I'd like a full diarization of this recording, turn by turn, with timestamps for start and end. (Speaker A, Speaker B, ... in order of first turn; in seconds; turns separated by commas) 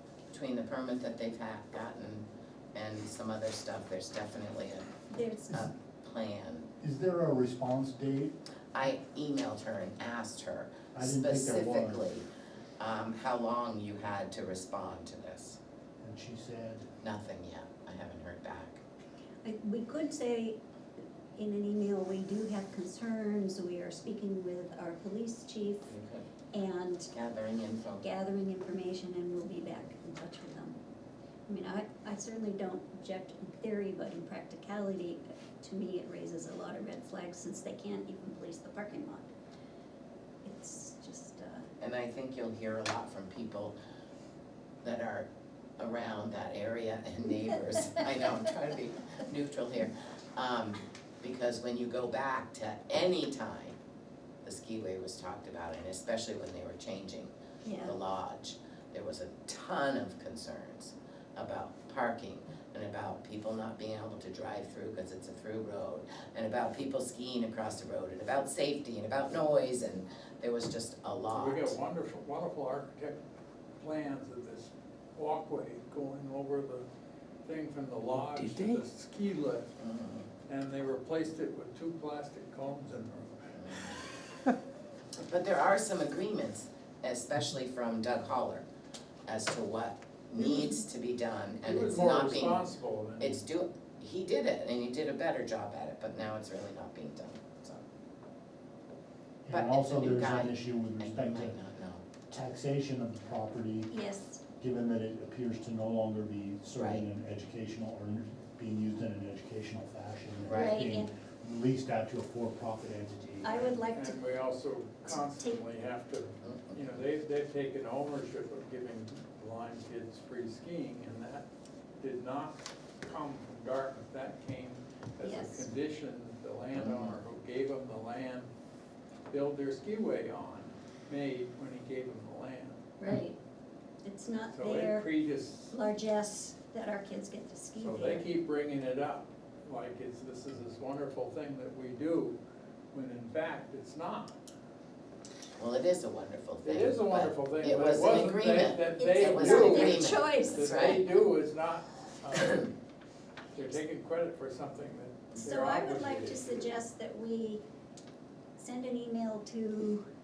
Speaker A: 0.3-4.9, Speaker B: 5.1-5.6, Speaker A: 5.5-6.7, Speaker C: 6.8-8.3, Speaker A: 8.7-12.3, Speaker C: 10.9-12.1, Speaker A: 12.8-15.6, Speaker C: 16.0-16.9, Speaker A: 17.0-18.8, Speaker B: 19.4-20.6, Speaker B: 21.4-26.0, Speaker A: 25.9-26.3, Speaker B: 26.5-27.1, Speaker A: 27.1-28.0, Speaker B: 28.0-30.8, Speaker B: 31.5-39.3, Speaker B: 40.4-41.7, Speaker A: 41.8-43.8, Speaker A: 44.8-53.8, Speaker A: 54.4-71.8, Speaker B: 57.6-58.0, Speaker D: 71.3-73.2, Speaker D: 73.8-76.8, Speaker D: 77.4-79.7, Speaker A: 79.8-80.3, Speaker D: 80.5-84.0, Speaker A: 83.6-83.9, Speaker A: 85.2-88.7, Speaker A: 89.3-92.6, Speaker D: 91.6-93.4, Speaker A: 93.2-97.8, Speaker C: 99.5-101.6, Speaker A: 99.5-102.0, Speaker C: 102.3-103.9, Speaker B: 103.9-104.4, Speaker C: 104.6-113.7, Speaker A: 106.8-107.0, Speaker A: 110.4-110.8, Speaker B: 110.5-111.1, Speaker B: 113.4-114.2, Speaker D: 113.6-121.5, Speaker B: 115.1-115.6, Speaker A: 116.4-116.8, Speaker D: 122.0-128.5, Speaker B: 125.2-125.7, Speaker A: 126.8-127.2, Speaker D: 129.3-132.9, Speaker B: 133.0-133.4, Speaker B: 134.0-135.1, Speaker D: 134.5-135.7, Speaker B: 135.7-138.3, Speaker D: 137.8-142.4, Speaker D: 142.9-144.4, Speaker A: 145.6-151.0, Speaker D: 146.6-152.7, Speaker B: 148.8-151.1, Speaker D: 153.5-156.7, Speaker B: 155.3-157.6, Speaker B: 158.6-160.0